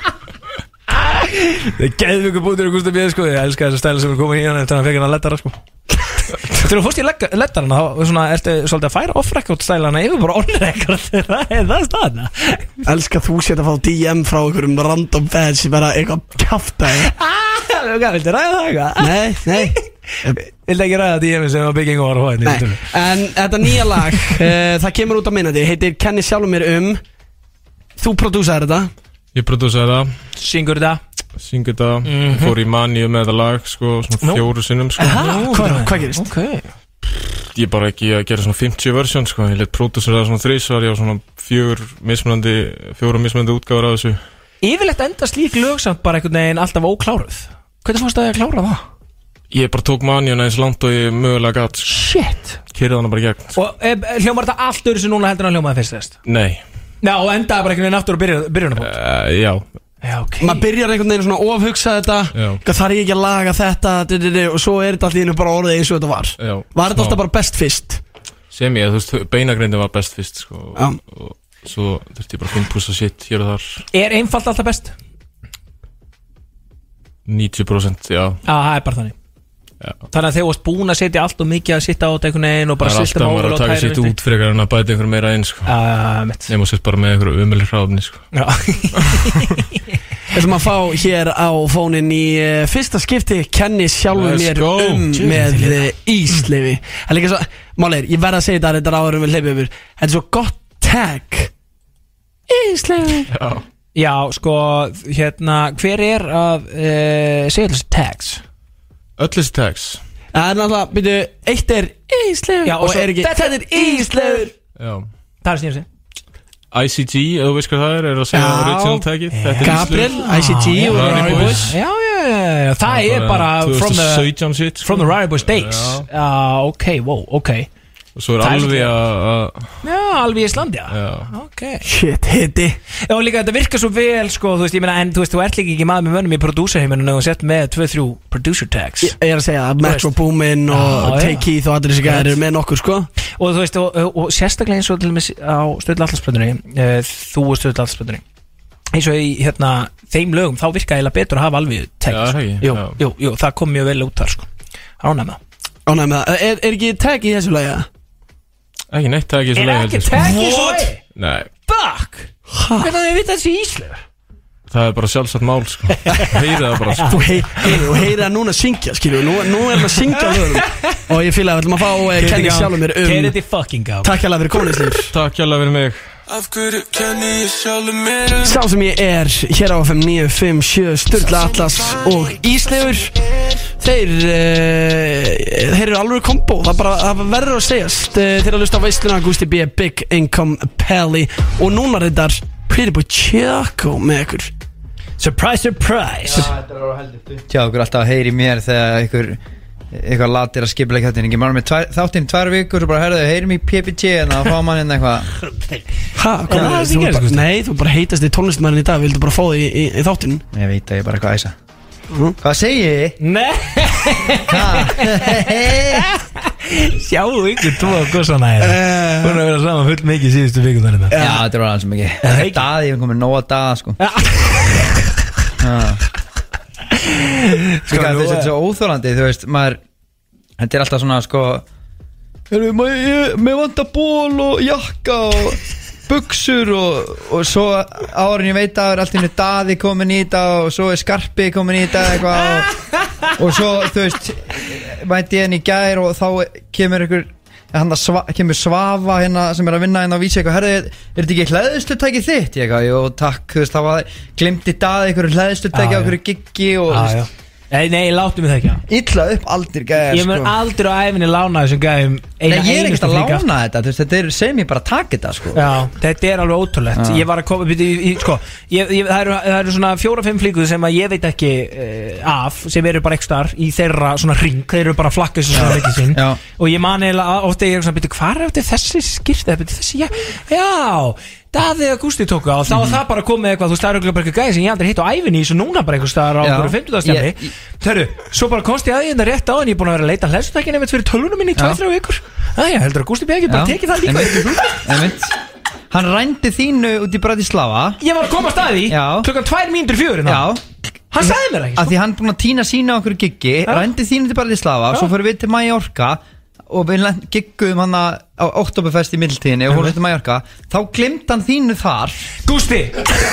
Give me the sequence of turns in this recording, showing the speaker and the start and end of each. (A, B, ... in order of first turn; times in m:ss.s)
0:00.9-0:12.7 A
0:12.8-0:17.1 B
0:16.9-0:23.0 A
0:19.0-0:20.4 B
0:22.4-0:27.0 B
0:23.7-0:24.4 A
0:28.0-0:28.9 B
0:29.3-0:30.1 C
0:30.4-0:31.0 A
0:31.4-0:35.3 C
0:32.0-0:32.6 A
0:35.0-0:36.3 B
0:35.0-0:36.7 A
0:37.5-0:44.2 C
0:44.6-0:48.8 A
0:49.5-0:52.0 C
0:51.9-0:52.6 A
0:52.7-0:53.6 C
0:53.6-0:56.2 A
0:56.2-0:56.6 C
0:57.0-0:59.0 A
0:58.8-0:59.7 C
1:00.0-1:00.6 A
1:00.4-1:08.0 B
1:02.3-1:02.6 C
1:06.4-1:07.2 C
1:08.5-1:13.8 C
1:13.9-1:14.9 A
1:17.3-1:18.4 C
1:18.4-1:19.2 A
1:20.1-1:24.2 A
1:22.8-1:25.8 C
1:25.7-1:26.5 A
1:26.5-1:28.3 C
1:28.3-1:30.0 A
1:28.9-1:29.6 C
1:30.3-1:41.5 B
1:34.1-1:35.8 C
1:42.5-1:43.3 B
1:43.3-1:43.6 C
1:44.0-1:48.4 A
1:49.2-1:50.0 C
1:50.3-1:54.5 B
1:52.6-1:54.5 A
1:54.8-1:55.1 C
1:55.4-1:55.9 A
1:56.7-2:01.8 C
1:58.3-2:01.8 B
1:59.3-2:07.7 A
2:02.8-2:06.1 C
2:08.2-2:09.8 C
2:08.4-2:09.0 A
2:09.8-2:11.8 A
2:10.9-2:11.3 C
2:11.8-2:12.8 B
2:13.1-2:19.2 A
2:19.0-2:23.1 B
2:19.8-2:20.1 A
2:20.7-2:21.5 A
2:22.0-2:22.4 A
2:23.4-2:28.2 A
2:28.9-2:34.5 A
2:32.1-2:33.0 C
2:35.0-2:35.4 A
2:35.9-2:37.9 B
2:38.9-2:40.4 C
2:39.5-2:41.0 A
2:40.2-2:40.9 B
2:41.0-2:41.5 C
2:41.7-2:44.0 A
2:42.5-2:42.9 B
2:44.7-2:47.2 C
2:46.0-2:48.0 A
2:47.0-2:53.4 B
2:50.1-2:51.0 A
2:52.1-2:54.2 A
2:54.0-2:55.1 B
2:55.1-2:56.1 C
2:56.3-2:58.6 D
2:58.4-3:03.2 B
3:03.8-3:14.5 B
3:15.2-3:16.5 A
3:16.3-3:19.4 E
3:19.9-3:25.3 E
3:25.5-3:25.8 A
3:26.2-3:30.4 B
3:26.5-3:27.4 A
3:30.5-3:31.6 E
3:32.1-3:32.4 B
3:32.4-3:33.2 E
3:33.2-3:41.2 A
3:34.5-3:36.1 E
3:38.6-3:39.4 B
3:41.1-3:41.4 B
3:41.2-3:44.0 E
3:42.2-3:42.6 A
3:44.0-3:45.0 A
3:45.6-3:46.0 E
3:47.0-3:48.5 A
3:47.9-3:49.8 E
3:50.6-3:51.6 E
3:52.5-4:17.2 E
4:15.7-4:16.2 A
4:16.9-4:18.8 A
4:18.9-4:20.6 E
4:20.1-4:23.5 A
4:22.5-4:25.6 E
4:25.5-4:54.9 A
4:27.0-4:27.3 E
4:35.5-4:36.4 E
4:42.7-4:43.0 E
4:46.4-4:47.5 E
4:53.5-4:55.4 E
4:55.9-4:58.0 E
4:58.0-5:00.5 A
4:58.9-4:59.3 E
5:00.2-5:00.6 E
5:01.1-5:02.0 A
5:01.2-5:12.3 E
5:09.7-5:10.0 A
5:12.4-5:13.1 A